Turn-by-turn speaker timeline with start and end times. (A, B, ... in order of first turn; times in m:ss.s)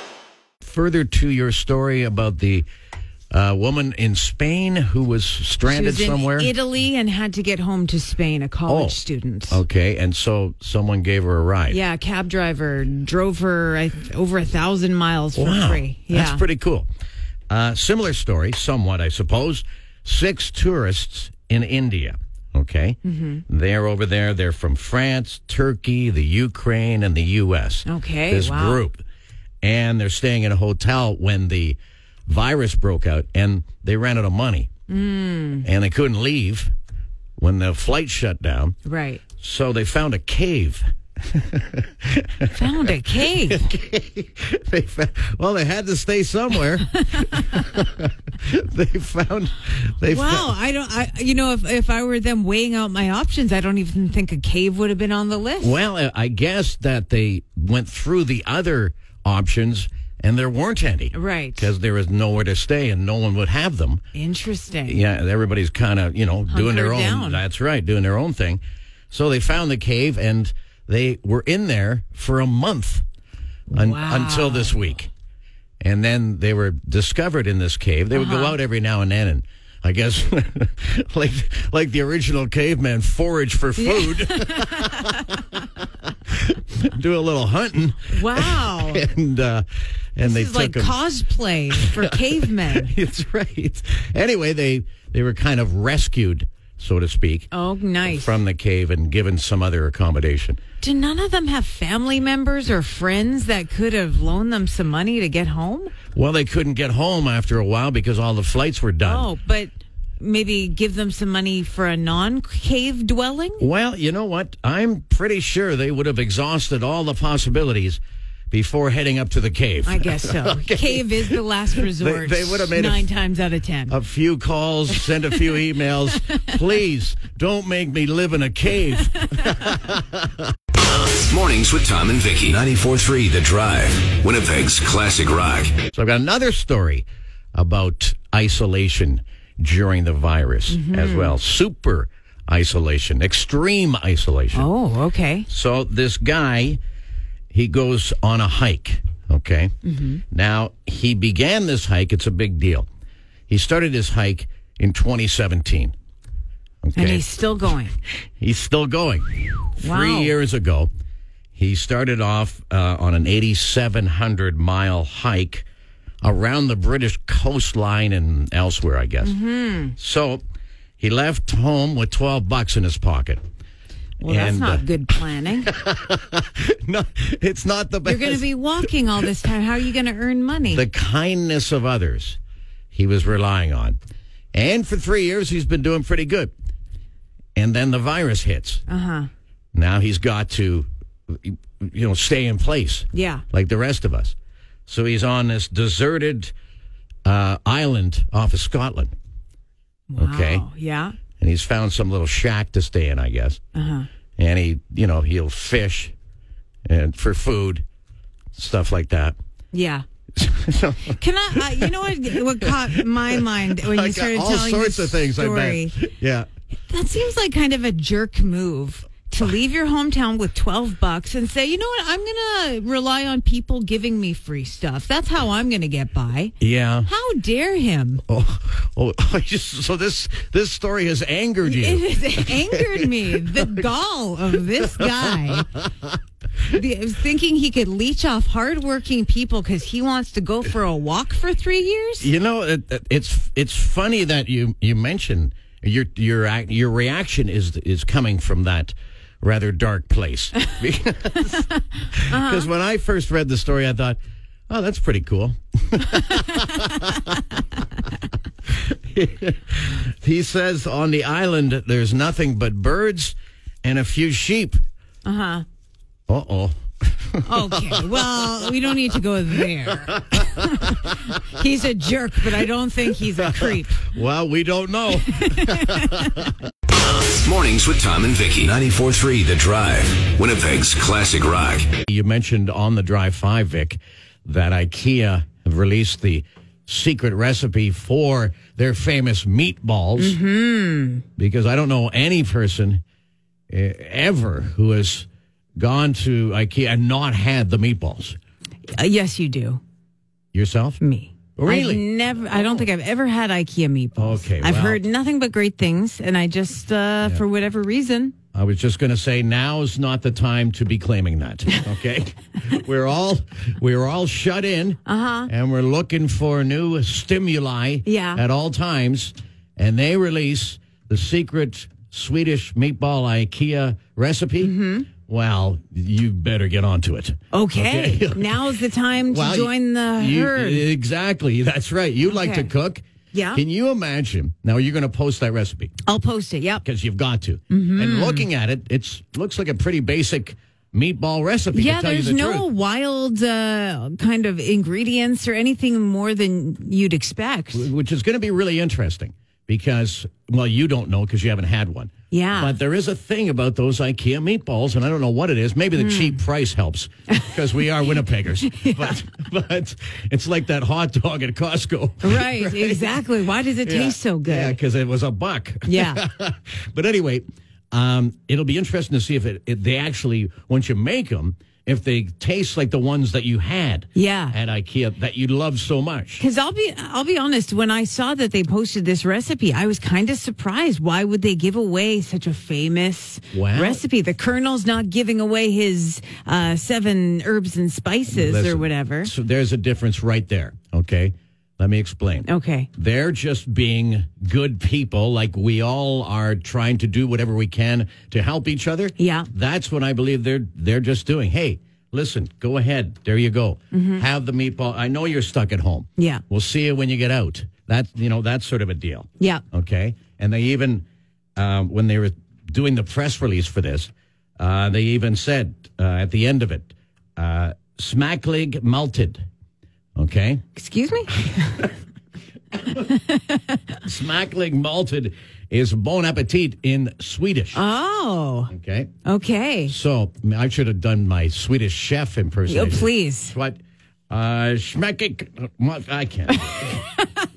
0:00.6-0:02.6 A
0:03.3-0:06.5 A
0:05.6-0:09.6 B
0:08.7-0:11.8 A
0:11.7-0:16.4 B
0:15.3-0:16.9 A
0:17.5-0:23.0 A
0:23.0-0:23.4 B
0:23.5-0:29.0 A
0:27.8-0:28.8 B
0:29.6-0:34.7 A
0:34.9-0:35.7 B
0:35.6-0:36.7 A
0:37.4-0:38.8 A
0:38.8-0:39.2 B
0:39.4-0:50.5 A
0:42.5-0:43.6 B
0:47.1-0:47.6 B
0:50.0-0:55.8 B
0:55.6-1:04.0 A
1:01.1-1:01.7 B
1:04.1-1:05.0 B
1:04.8-1:13.0 A
1:06.5-1:07.4 B
1:13.7-1:15.1 A
1:13.7-1:14.8 B
1:15.8-1:25.1 A
1:18.1-1:18.6 B
1:23.8-1:25.2 B
1:26.3-1:31.0 A
1:28.1-1:29.0 B
1:30.2-1:32.9 B
1:31.7-1:37.5 A
1:37.5-1:38.4 B
1:38.0-1:40.6 A
1:40.8-1:45.9 B
1:46.1-1:49.3 A
1:49.0-1:53.6 B
1:53.6-2:03.1 A
1:59.8-2:03.9 B
2:03.9-2:10.5 A
2:09.3-2:09.6 B
2:10.8-2:15.8 C
2:15.9-2:24.7 A
2:20.7-2:21.3 B
2:24.5-2:25.5 B
2:25.5-2:26.8 A
2:27.5-2:29.7 A
2:29.8-2:30.2 B
2:30.3-2:32.9 A
2:33.5-2:35.9 A
2:36.8-2:37.2 A
2:37.0-2:38.0 B
2:38.4-2:40.9 A
2:39.8-2:40.3 B
2:41.6-2:45.6 A
2:46.2-2:49.3 A
2:49.2-2:49.9 B
2:50.0-2:50.4 A
2:51.0-2:53.4 A
2:54.2-2:55.7 B
2:54.2-2:58.9 A
2:58.0-3:00.8 B
3:00.7-3:02.4 A
3:02.9-3:04.0 A
3:04.5-3:06.5 A
3:07.5-3:08.8 A
3:08.9-3:09.3 B
3:09.7-3:14.3 A
3:13.1-3:13.4 B
3:14.9-3:16.5 A
3:17.2-3:19.1 A
3:20.1-3:21.2 B
3:20.2-3:20.7 A
3:21.4-3:23.6 A
3:23.7-3:24.1 B
3:24.4-3:26.1 A
3:26.8-3:27.8 A
3:28.6-3:29.4 A
3:29.7-3:30.0 B
3:30.4-3:36.5 A
3:31.1-3:36.0 B
3:36.9-3:48.2 B
3:46.6-3:47.1 A
3:48.3-3:53.8 A
3:51.6-3:55.7 B
3:54.5-3:56.1 A
3:56.7-4:02.3 B
4:02.2-4:14.2 A
4:12.3-4:12.6 B
4:14.7-4:17.4 A
4:18.9-4:24.8 A
4:25.2-4:25.6 B
4:26.3-4:29.0 A
4:27.4-4:34.1 B
4:29.5-4:31.1 A
4:33.2-4:36.5 A
4:35.4-4:36.2 B
4:36.9-4:41.9 C
4:42.0-4:50.4 A
4:50.2-4:51.2 B
4:51.4-4:53.0 A
4:53.7-4:58.4 A
4:58.9-4:59.8 B
5:00.5-5:01.0 A
5:01.0-5:08.3 B
5:01.6-5:02.8 A
5:04.2-5:05.0 A
5:08.5-5:28.7 A
5:15.0-5:15.5 B
5:18.0-5:18.4 B
5:24.6-5:25.1 B
5:27.5-5:30.8 B
5:29.2-5:36.0 A
5:32.2-5:32.7 B
5:33.3-5:33.6 B
5:36.0-5:36.8 B
5:36.8-5:42.7 A
5:37.7-5:38.5 B
5:41.7-5:47.9 B
5:47.7-6:03.3 A
5:52.3-5:52.8 B
5:56.0-5:56.4 B
5:58.6-5:59.1 B
6:02.2-6:04.8 B
6:03.8-6:16.4 A
6:05.9-6:06.2 B
6:14.1-6:14.5 B
6:16.4-6:29.3 B
6:23.5-6:24.0 A
6:28.3-6:51.0 A
6:32.4-6:32.9 B
6:39.2-6:39.5 B
6:43.9-6:44.2 B
6:46.2-6:46.4 B
6:51.6-6:59.4 A
7:00.2-7:00.6 A
7:00.7-7:01.5 B
7:01.6-7:01.8 A
7:04.0-7:07.8 A
7:07.7-7:08.7 B
7:08.7-7:09.1 A
7:09.2-7:09.9 B
7:09.9-7:13.8 A
7:12.7-7:13.5 B
7:14.3-7:17.0 A
7:16.6-7:17.2 B